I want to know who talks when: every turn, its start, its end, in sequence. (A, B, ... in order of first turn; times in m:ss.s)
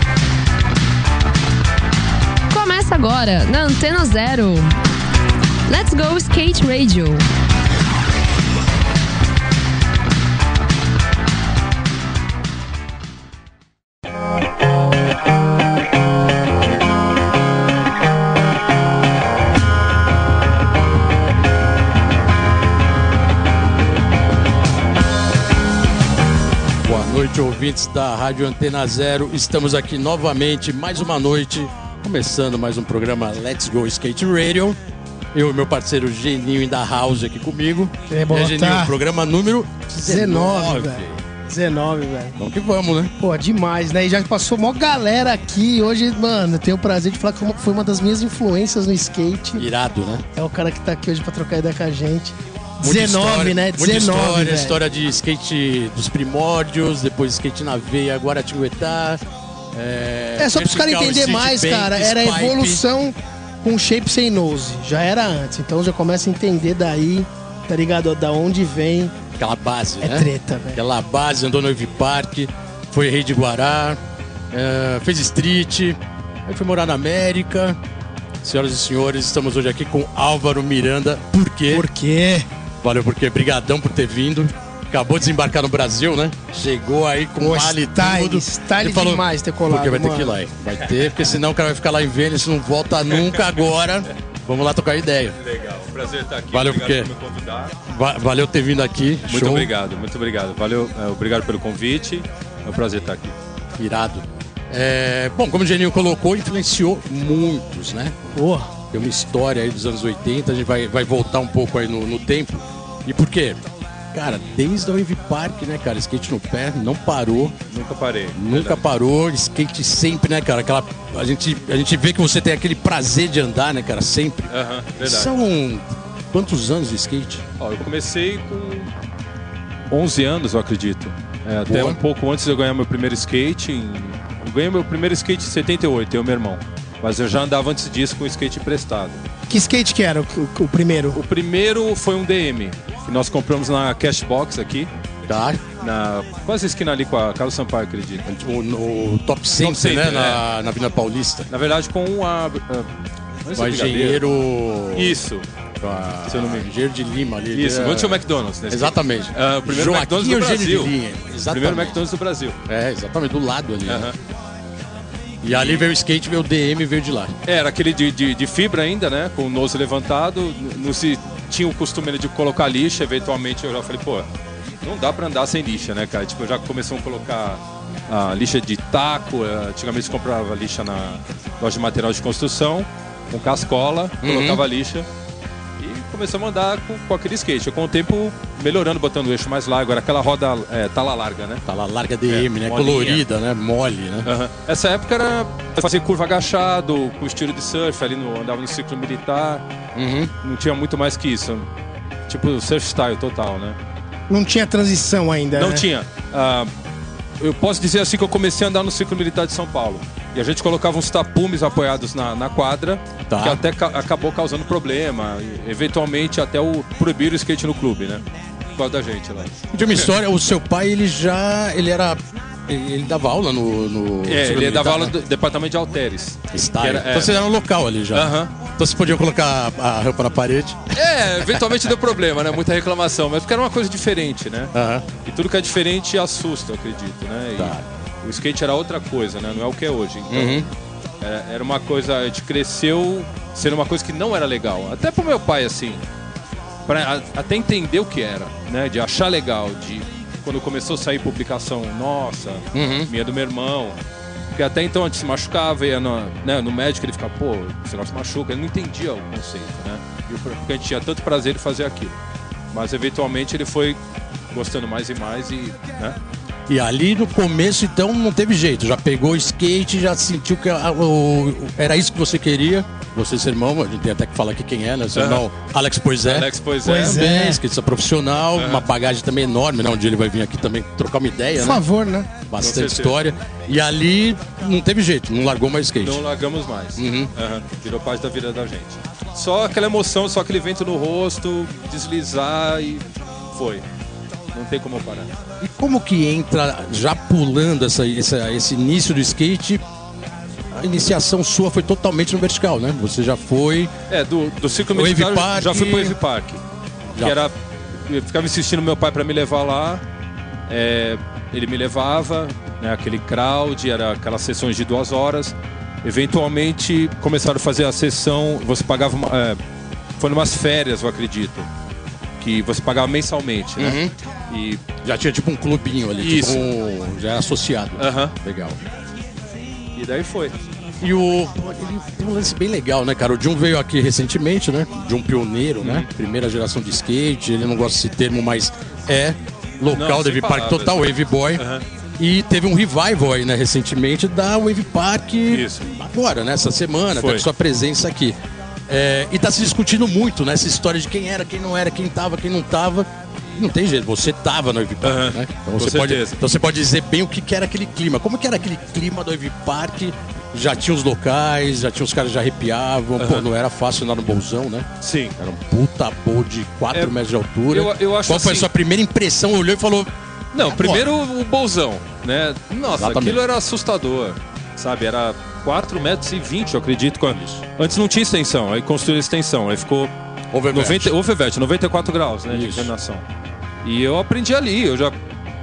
0:02.5-0:04.7 A
0:05.7-0:07.2 A
0:26.8-0:34.8 B
0:35.3-0:41.2 B
0:38.1-0:38.9 C
0:40.0-0:42.4 C
0:42.4-0:43.1 B
0:43.2-0:49.7 C
0:49.5-0:50.2 B
0:50.4-0:54.8 C
0:52.8-0:59.2 B
0:59.7-1:02.8 B
1:00.4-1:09.1 C
1:09.4-1:14.0 B
1:10.0-1:10.8 C
1:14.5-1:17.8 B
1:18.4-1:21.8 B
1:21.7-1:22.5 C
1:22.8-1:35.4 B
1:27.4-1:30.3 C
1:33.1-1:33.4 D
1:35.4-1:37.7 D
1:36.5-1:37.1 B
1:37.8-1:39.7 B
1:39.3-1:43.4 D
1:43.8-1:48.2 B
1:48.3-1:48.7 C
1:48.9-1:53.6 B
1:54.1-1:57.6 B
1:57.7-1:58.8 D
1:58.4-2:07.4 B
2:04.5-2:05.3 D
2:07.6-2:08.9 D
2:09.9-2:19.2 D
2:11.7-2:12.0 B
2:19.5-2:21.2 C
2:21.1-2:24.9 D
2:25.2-2:25.6 B
2:25.8-2:28.2 D
2:28.2-2:31.5 B
2:29.6-2:30.4 D
2:31.5-2:32.9 D
2:33.4-2:34.2 D
2:33.6-2:35.2 B
2:34.9-2:35.4 D
2:35.8-2:42.0 B
2:36.3-2:36.7 D
2:37.5-2:40.9 D
2:41.5-2:42.6 D
2:42.7-2:44.1 B
2:43.8-2:44.2 D
2:45.4-2:47.3 B
2:45.5-2:45.8 D
2:47.4-2:54.2 D
2:54.8-3:05.0 D
3:04.2-3:04.6 B
3:05.8-3:11.6 D
3:11.7-3:14.3 B
3:12.3-3:13.2 D
3:14.2-3:19.6 D
3:19.9-3:20.3 B
3:20.4-3:21.6 D
3:22.3-3:23.8 D
3:24.3-3:25.8 C
3:25.6-3:26.7 D
3:27.4-3:38.2 D
3:33.3-3:33.6 B
3:38.8-3:40.1 D
3:39.7-3:45.1 B
3:44.3-3:47.4 D
3:46.5-3:51.6 B
3:48.1-3:48.5 D
3:50.9-3:54.7 D
3:54.7-3:55.0 B
3:55.2-4:00.7 D
3:57.6-3:57.8 B
4:00.3-4:00.7 B
4:01.2-4:06.0 D
4:06.9-4:14.0 D
4:12.7-4:13.1 B
4:14.5-4:22.1 D
4:20.3-4:20.6 B
4:22.7-4:24.0 D
4:24.5-4:26.2 D
4:26.7-4:41.8 B
4:35.1-4:35.4 D
4:36.2-4:37.2 D
4:36.8-4:37.6 C
4:38.6-4:38.9 D
4:41.6-4:42.3 C
4:42.5-4:46.2 B
4:42.6-4:43.3 D
4:46.0-4:53.8 D
4:47.0-4:47.3 B
4:54.5-4:55.3 D
4:55.6-4:59.8 B
5:00.7-5:03.9 B
5:04.1-5:06.6 D
5:04.9-5:06.2 B
5:07.2-5:07.5 D
5:08.1-5:10.0 D
5:10.7-5:19.6 D
5:20.2-5:21.7 D
5:22.4-5:24.8 D
5:23.8-5:24.1 B
5:25.0-5:28.8 B
5:26.2-5:26.7 D
5:28.0-5:28.3 D
5:30.0-5:30.5 D
5:31.0-5:41.6 B
5:35.8-5:36.1 D
5:39.9-5:41.8 D
5:42.2-5:48.4 B
5:45.5-5:45.8 D
5:47.2-5:47.4 D
5:48.9-6:10.1 B
5:55.0-5:56.4 D
6:03.2-6:03.4 D
6:05.0-6:05.3 D
6:07.7-6:08.7 D
6:10.5-6:20.1 D
6:10.6-6:11.1 B
6:12.9-6:13.4 B
6:17.3-6:17.6 B
6:20.5-6:21.1 B
6:20.7-6:23.2 D
6:22.5-6:22.9 B
6:23.8-6:25.1 D